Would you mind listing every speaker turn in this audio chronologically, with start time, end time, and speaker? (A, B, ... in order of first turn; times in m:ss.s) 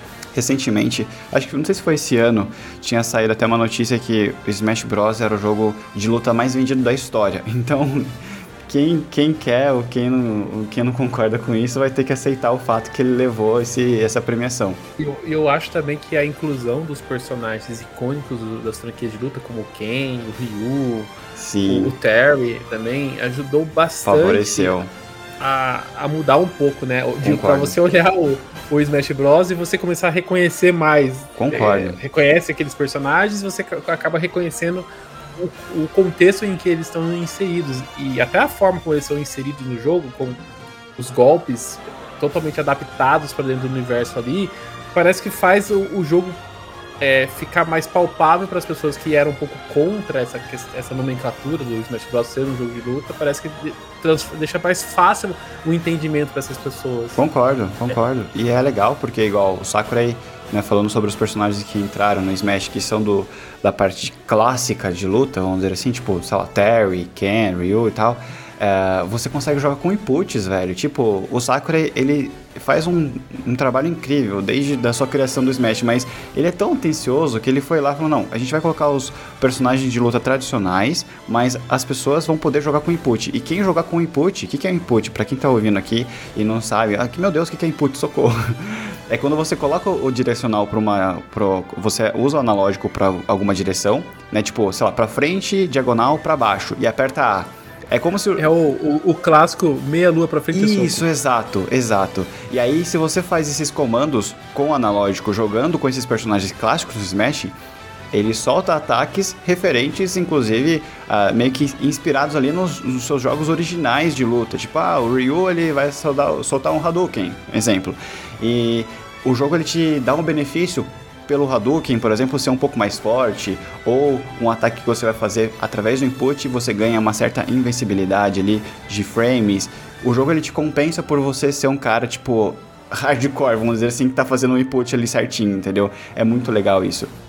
0:00.3-0:14.8 A
0:15.0-0:24.7 B
0:21.4-0:21.9 A
0:24.0-0:24.9 A
0:25.4-0:40.4 B
0:27.2-0:27.8 A
0:31.4-0:32.0 A
0:41.0-0:46.4 B
0:47.0-0:57.2 B
0:57.2-1:38.5 A
1:38.4-1:41.1 B
1:40.5-1:47.6 A
1:48.1-2:17.1 A